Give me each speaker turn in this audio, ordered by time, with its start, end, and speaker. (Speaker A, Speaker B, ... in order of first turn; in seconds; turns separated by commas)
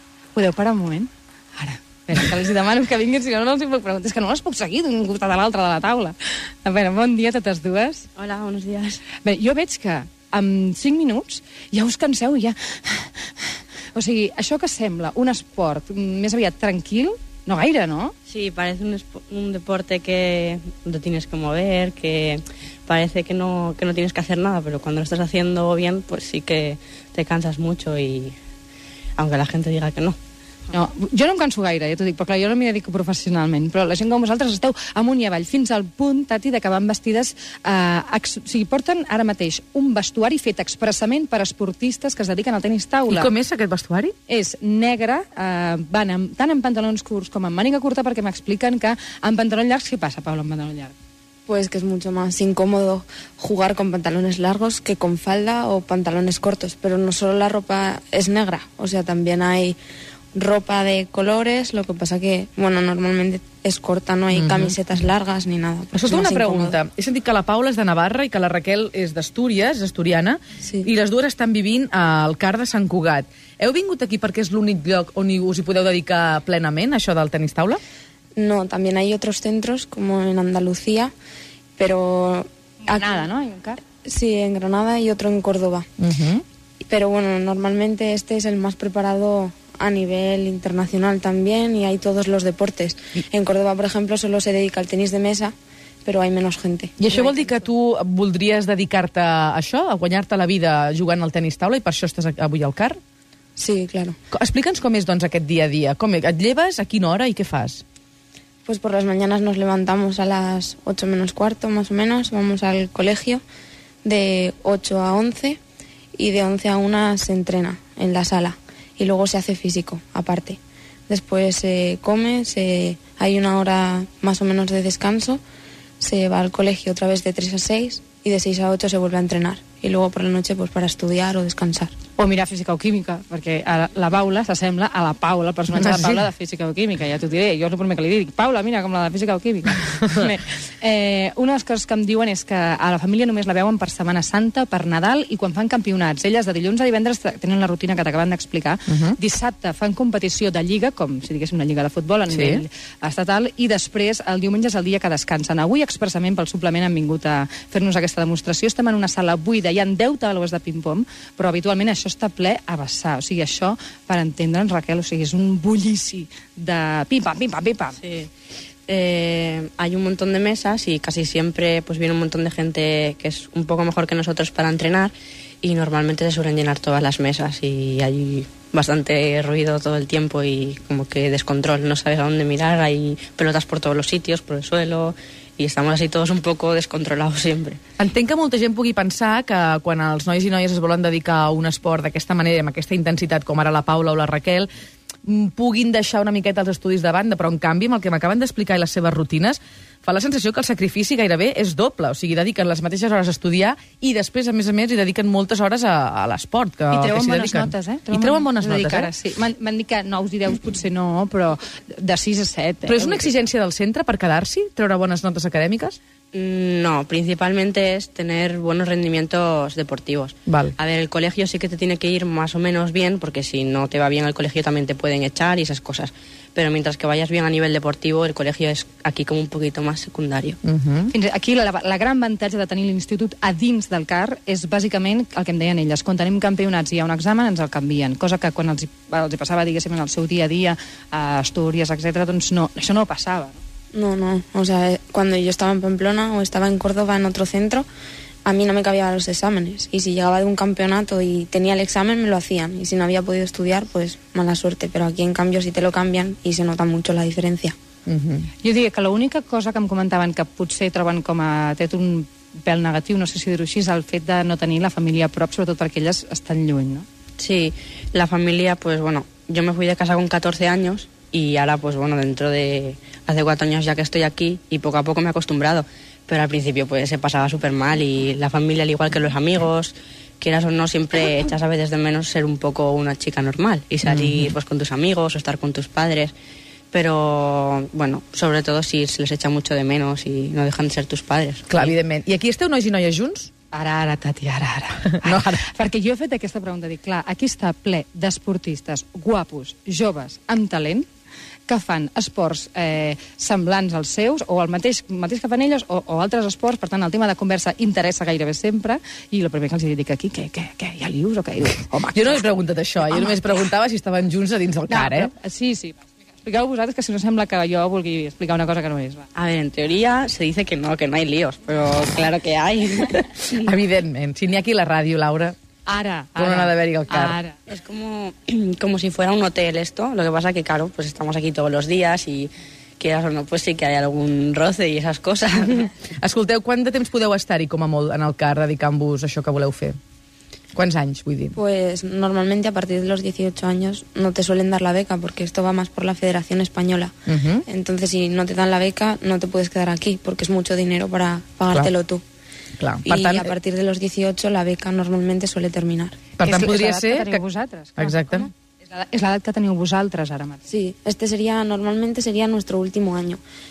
Speaker A: 0.3-8.1, Speaker B: 8.2-9.0, Speaker A: 9.2-13.1, Speaker A: 13.9-18.1, Speaker B: 18.3-28.4, Speaker B: 29.2-30.2, Speaker A: 30.7-43.3, Speaker C: 43.1-44.1, Speaker A: 44.3-50.9, Speaker D: 51.5-59.8, Speaker D: 60.3-66.8, Speaker C: 64.3-64.8, Speaker C: 65.9-77.8, Speaker D: 70.6-70.9, Speaker D: 78.3-81.1, Speaker D: 81.8-83.3, Speaker A: 82.8-83.8, Speaker D: 84.0-85.9, Speaker C: 86.0-86.4, Speaker D: 86.9-95.5, Speaker D: 96.0-97.5, Speaker C: 97.0-103.0, Speaker D: 103.6-104.2, Speaker C: 104.3-107.8, Speaker D: 108.7-113.4, Speaker D: 114.0-115.6, Speaker D: 116.2-125.4, Speaker D: 126.0-131.9, Speaker A: 132.2-168.0, Speaker C: 135.8-136.2, Speaker C: 148.9-149.2, Speaker C: 152.3-152.6, Speaker B: 168.0-168.3, Speaker B: 168.9-187.8, Speaker C: 188.0-194.7, Speaker C: 195.2-209.1, Speaker A: 206.9-213.3, Speaker C: 212.9-216.0, Speaker B: 216.3-230.6, Speaker C: 220.5-220.7, Speaker C: 230.6-231.1, Speaker A: 231.1-243.6, Speaker D: 243.9-247.8, Speaker D: 248.4-257.7, Speaker C: 258.1-258.5, Speaker A: 258.6-267.1, Speaker B: 267.4-286.3, Speaker C: 284.1-284.5, Speaker B: 286.9-291.9, Speaker C: 291.7-293.5, Speaker A: 293.7-301.1, Speaker C: 295.2-295.6, Speaker A: 301.7-312.5, Speaker C: 312.1-315.3, Speaker A: 313.0-313.4, Speaker A: 314.9-319.2, Speaker B: 319.3-323.5, Speaker C: 323.5-325.6, Speaker A: 325.9-327.6, Speaker C: 326.4-327.4, Speaker B: 327.7-335.9, Speaker C: 336.2-339.9, Speaker C: 340.7-341.6, Speaker D: 341.5-347.1, Speaker C: 347.3-347.6, Speaker D: 347.6-352.2, Speaker C: 352.8-353.5, Speaker D: 353.0-356.2, Speaker C: 356.4-357.4, Speaker A: 356.4-360.6, Speaker C: 358.0-358.5, Speaker D: 360.7-363.4